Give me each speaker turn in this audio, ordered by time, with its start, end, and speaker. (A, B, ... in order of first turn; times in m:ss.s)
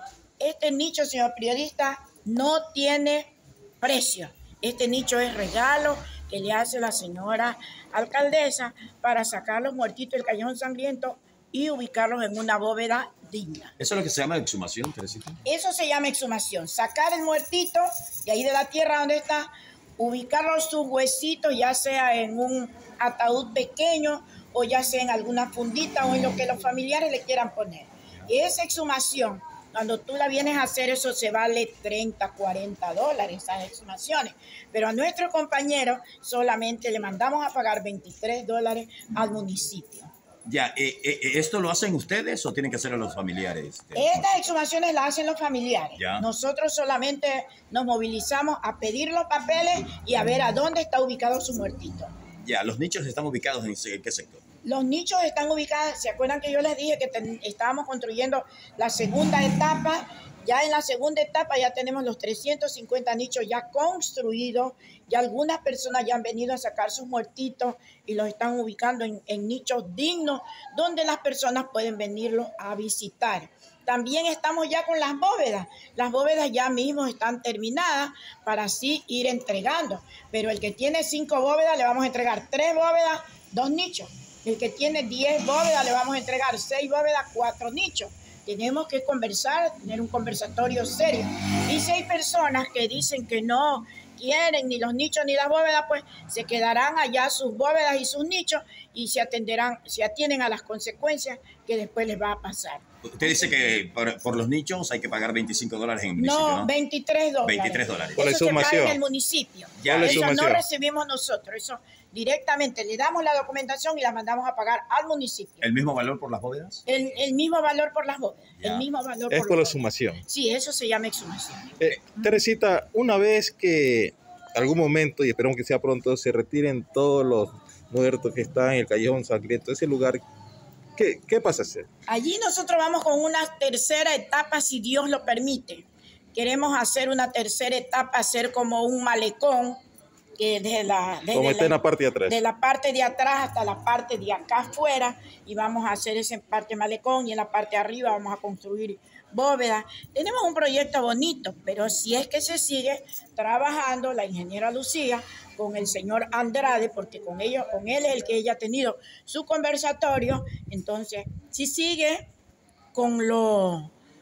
0:00.4-0:13.7 A
0:13.8-0:15.4 B
0:15.4-0:40.1 A
0:40.4-0:44.5 B
0:43.9-0:52.1 A
0:46.0-0:46.2 B
0:52.4-0:54.4 B
0:54.6-1:43.5 A
1:43.0-1:46.7 B
1:46.2-1:55.7 A
1:47.4-1:48.3 B
1:48.2-1:49.0 C
1:49.8-1:50.3 B
1:49.8-1:50.6 C
1:55.6-1:56.8 B
1:56.8-2:02.3 A
1:58.6-1:58.8 B
1:59.3-2:00.2 C
2:01.8-2:10.2 C
2:11.0-2:11.8 C
2:12.1-2:19.8 A
2:20.4-2:42.3 A
2:21.3-2:22.4 C
2:42.9-2:43.9 A